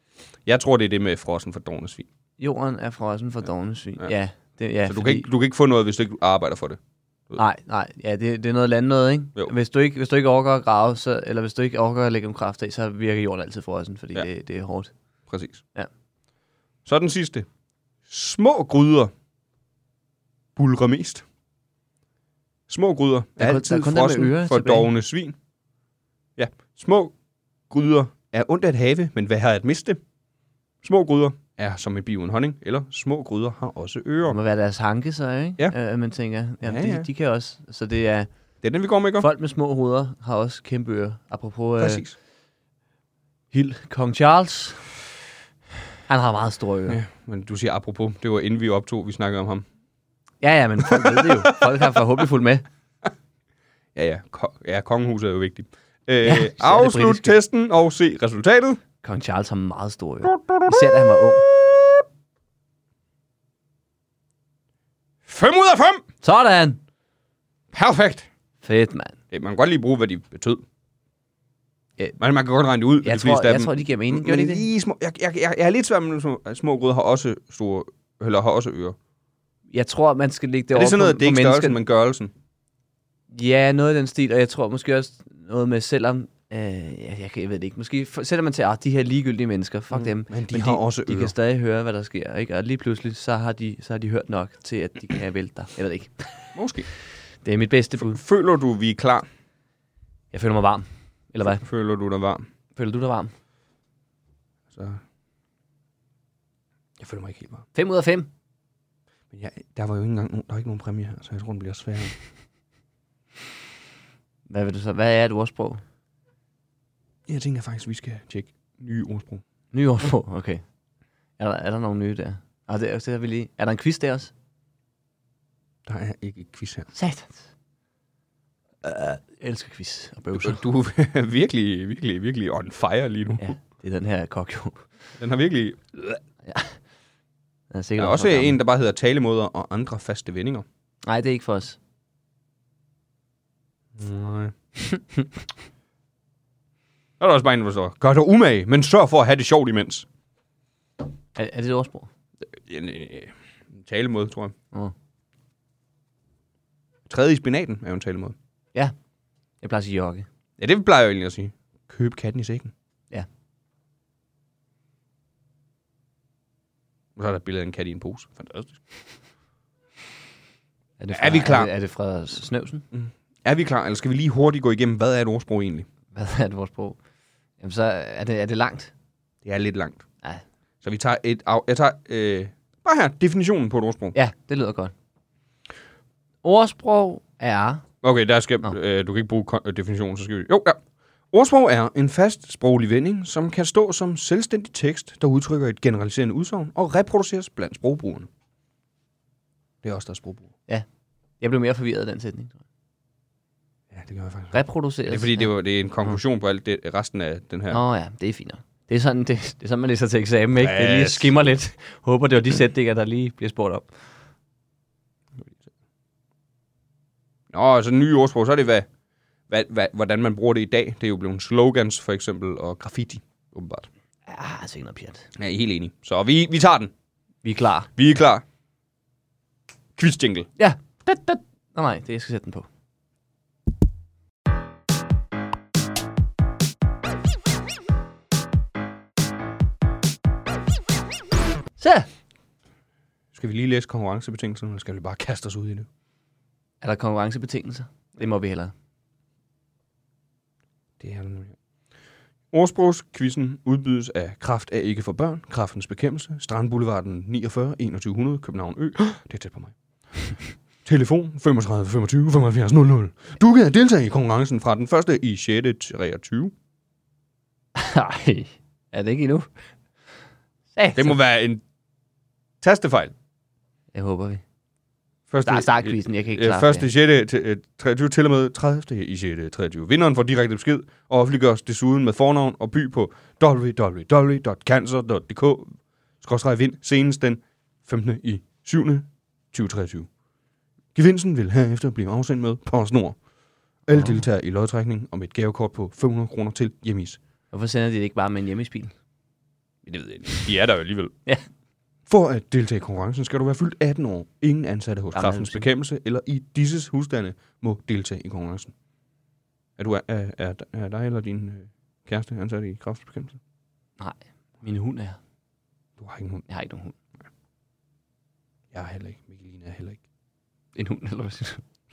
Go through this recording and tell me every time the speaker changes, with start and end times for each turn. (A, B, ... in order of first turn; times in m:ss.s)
0:00.4-0:02.1 A
0:02.4-0:05.3 B
0:04.8-0:06.8 A
0:07.4-0:14.9 B
0:15.3-0:15.6 A
0:16.8-0:17.5 A
0:18.1-0:19.1 A
0:20.6-0:21.2 A
0:22.7-0:25.4 A
0:23.4-0:24.9 B
0:26.4-0:27.1 A
0:27.7-0:30.0 A
0:30.8-0:34.4 A
0:34.2-0:38.3 B
0:36.6-0:37.1 A
0:38.6-0:39.3 A
0:39.2-0:42.0 B
0:41.8-0:42.1 A
0:43.5-0:44.8 B
0:46.1-0:47.0 B
0:46.9-0:49.6 A
0:50.4-0:52.6 B
0:50.8-0:52.0 A
0:53.9-0:58.8 A
0:56.2-0:57.4 B
0:59.0-1:01.4 B
1:00.2-1:01.9 A
1:05.2-1:06.0 A
1:06.2-1:06.8 B
1:07.7-1:08.3 A
1:08.6-1:09.2 B
1:09.3-1:10.6 A
1:12.2-1:19.0 A
1:13.0-1:14.6 B
1:19.7-1:21.8 B
1:20.7-1:22.3 A
1:23.3-1:36.5 B
1:29.9-1:31.3 A
1:36.5-1:36.9 A
1:37.4-1:38.2 B
1:38.0-1:39.2 A
1:40.3-1:41.6 B
1:41.6-1:42.4 A
1:42.7-1:43.3 B
1:44.7-1:45.0 A
1:47.0-1:47.6 A
1:47.7-1:48.3 B
1:49.3-1:52.1 A
1:54.5-1:55.8 B
1:57.3-1:59.4 A
1:59.7-2:00.6 B
2:01.4-2:04.3 B
2:05.8-2:06.9 A
2:06.9-2:07.4 B
2:08.8-2:10.6 B
2:10.3-2:13.5 A
2:13.4-2:14.9 B
2:15.2-2:16.2 A
2:16.4-2:16.8 B
2:17.7-2:18.6 B
2:18.0-2:20.6 A
2:21.0-2:21.8 B
2:24.0-2:24.5 A
2:27.2-2:30.1 A
2:31.4-2:32.1 B
2:32.6-2:34.5 A
2:37.1-2:38.3 A
2:39.6-2:40.3 B
2:40.6-2:42.7 A
2:47.2-2:48.8 A
2:51.0-2:52.8 B
2:51.1-2:51.7 A
2:52.9-2:55.9 A
2:56.1-2:57.0 B
2:57.6-2:58.9 B
2:59.4-3:00.0 A
3:00.8-3:04.1 A
3:04.1-3:04.9 B
3:06.4-3:07.8 B
3:08.0-3:10.8 A
3:11.3-3:18.3 A
3:19.8-3:20.5 A
3:21.4-3:22.6 B
3:23.9-3:27.8 A
3:24.5-3:25.5 B
3:27.7-3:33.9 B
3:30.6-3:31.3 A
3:37.5-3:38.9 A
3:39.5-3:43.9 A
3:44.3-3:45.3 B
3:45.4-3:46.9 A
3:47.4-3:47.9 B
3:48.0-3:48.4 A
3:50.0-3:50.5 A
3:50.6-3:52.7 B
4:01.8-4:02.1 B
4:03.3-4:05.9 A
4:06.8-4:08.7 B
4:11.0-4:11.6 A
4:12.5-4:19.7 A
4:20.2-4:26.5 A
4:27.7-4:29.5 B
4:30.7-4:31.2 B
4:30.9-4:31.6 A
4:32.6-4:33.1 A
4:33.9-4:34.4 B
4:35.3-4:50.1 A
4:35.4-4:36.9 B
4:50.9-4:53.2 A
4:53.9-4:57.2 A
4:53.9-4:54.2 B
4:57.5-4:58.9 B
4:59.8-5:01.1 A
5:02.1-5:08.7 A
5:05.1-5:05.6 B
5:09.8-5:13.4 A
5:14.0-5:15.2 B
5:16.0-5:16.4 A
5:16.5-5:16.9 B
5:18.7-5:20.0 A
5:20.7-5:21.6 B